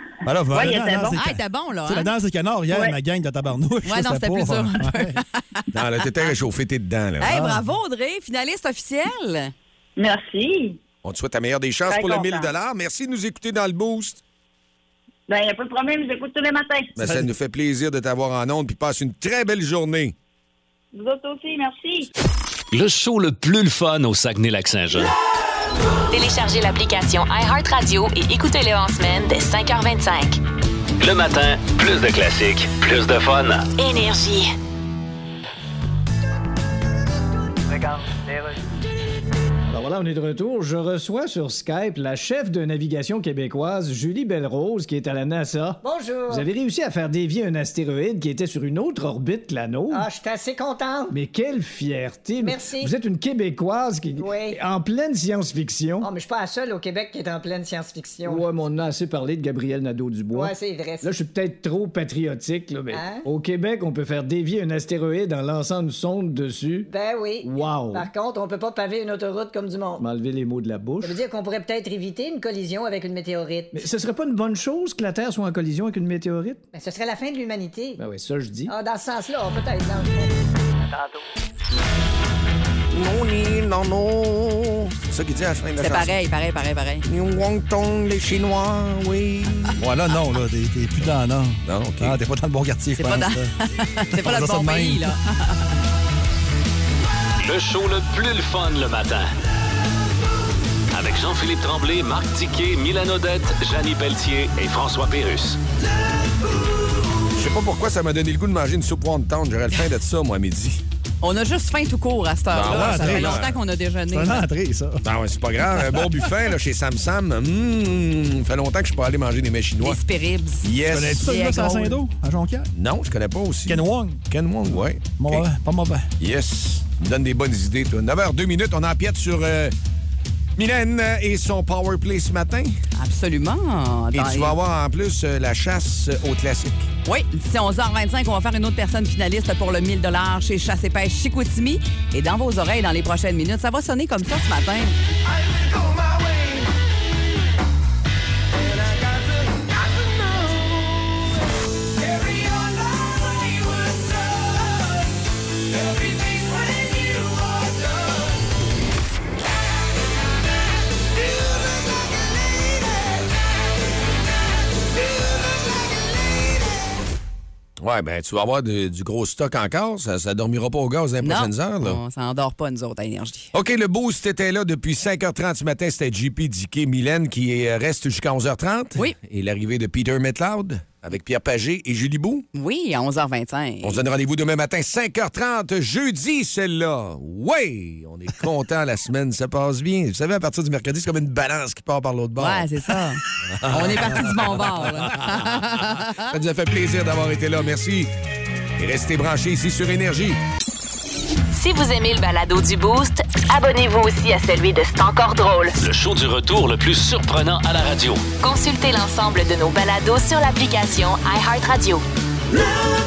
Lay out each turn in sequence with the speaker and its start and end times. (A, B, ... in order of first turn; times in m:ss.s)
0:00.2-0:05.2 A
0:00.5-0:01.2 B
0:01.2-0:02.1 C
0:02.7-0:03.0 B
0:03.8-0:05.7 C
0:05.7-0:07.4 D
0:07.2-0:09.5 C
0:07.2-0:07.6 A
0:10.0-0:10.8 B
0:11.0-0:14.2 D
0:11.9-0:12.5 B
0:15.3-0:16.9 B
0:17.0-0:20.1 D
0:17.0-0:17.3 A
0:20.9-0:22.1 B
0:22.7-0:25.1 E
0:26.1-0:30.4 F
0:31.0-0:33.7 E
0:33.8-0:34.5 F
0:39.7-0:50.0 G
0:45.8-0:46.5 H
0:49.9-0:51.1 H
0:51.1-0:56.1 G
0:52.4-0:52.9 H
0:54.2-0:54.6 H
0:56.0-0:58.4 H
0:58.2-1:06.9 G
1:00.3-1:01.1 H
1:02.9-1:03.3 H
1:06.9-1:10.0 H
1:07.4-1:08.1 G
1:10.0-1:11.2 G
1:11.0-1:13.9 H
1:13.7-1:16.6 G
1:16.7-1:18.0 H
1:18.0-1:18.7 G
1:18.7-1:20.5 H
1:22.9-1:26.1 D
1:25.8-1:27.0 C
1:27.1-1:29.8 D
1:29.8-1:33.5 A
1:31.6-1:32.2 D
1:33.0-1:35.8 C
1:34.1-1:35.1 A
1:37.4-1:39.3 E
1:40.9-1:45.6 E
1:47.3-1:50.8 D
1:51.2-1:54.5 C
1:52.5-1:53.6 D
1:52.6-1:53.4 A
1:54.1-1:55.0 A
1:55.0-2:00.0 D
1:59.8-2:00.7 C
2:00.6-2:01.3 D
2:00.8-2:02.7 A
2:01.2-2:02.0 C
2:02.7-2:05.4 D
2:03.7-2:06.1 A
2:06.2-2:09.7 D
2:10.6-2:12.8 D
2:13.0-2:14.6 C
2:14.1-2:16.9 D
2:17.0-2:25.0 C
2:47.8-2:52.0 D
2:51.2-2:53.5 C
2:53.5-3:02.4 D
3:02.5-3:04.0 C
3:03.8-3:18.1 D
3:12.4-3:16.3 C
3:18.8-3:20.4 D
3:21.5-3:25.7 F
3:25.8-3:28.3 E
3:28.4-3:32.0 F